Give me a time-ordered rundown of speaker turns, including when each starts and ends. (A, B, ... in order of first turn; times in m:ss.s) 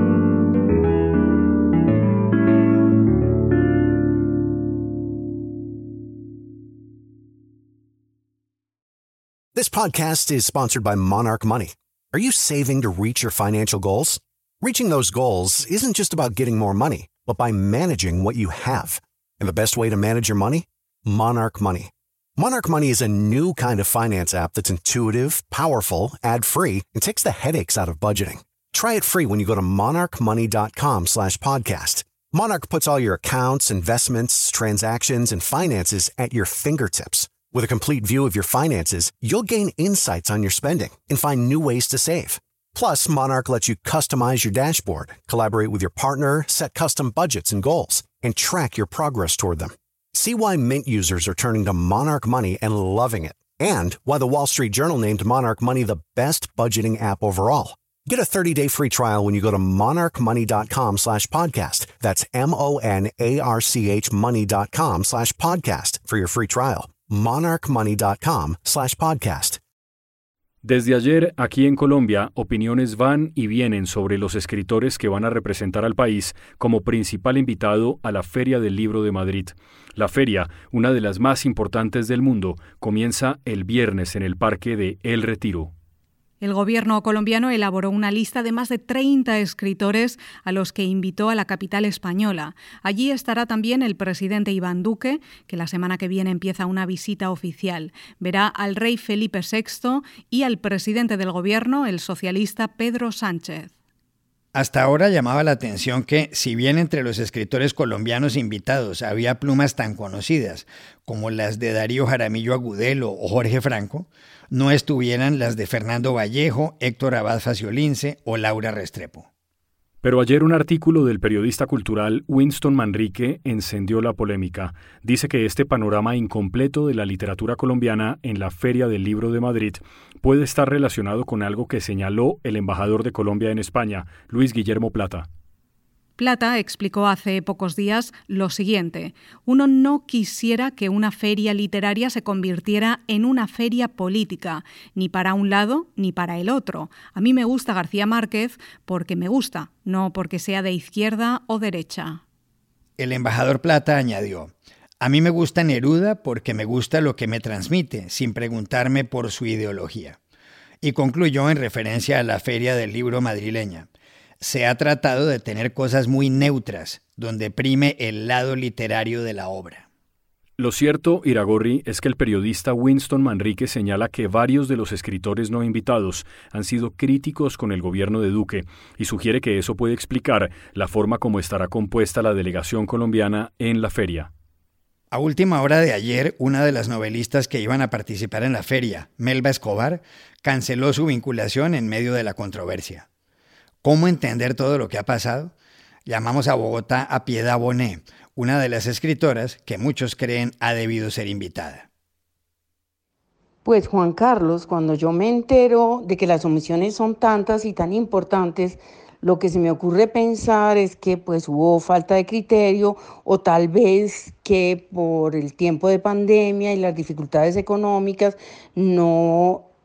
0:09.6-1:09.6 A
1:10.6-1:25.7 B
1:26.4-1:43.7 C
1:44.5-1:59.3 D
2:00.0-2:15.3 B
2:16.2-2:32.2 C
2:33.0-2:40.2 D
2:40.8-2:43.9 D
2:44.4-2:49.9 D
2:50.6-3:04.3 B
3:05.1-3:13.1 D
3:13.8-3:15.5 D
3:16.1-3:21.9 D
3:23.6-3:39.7 E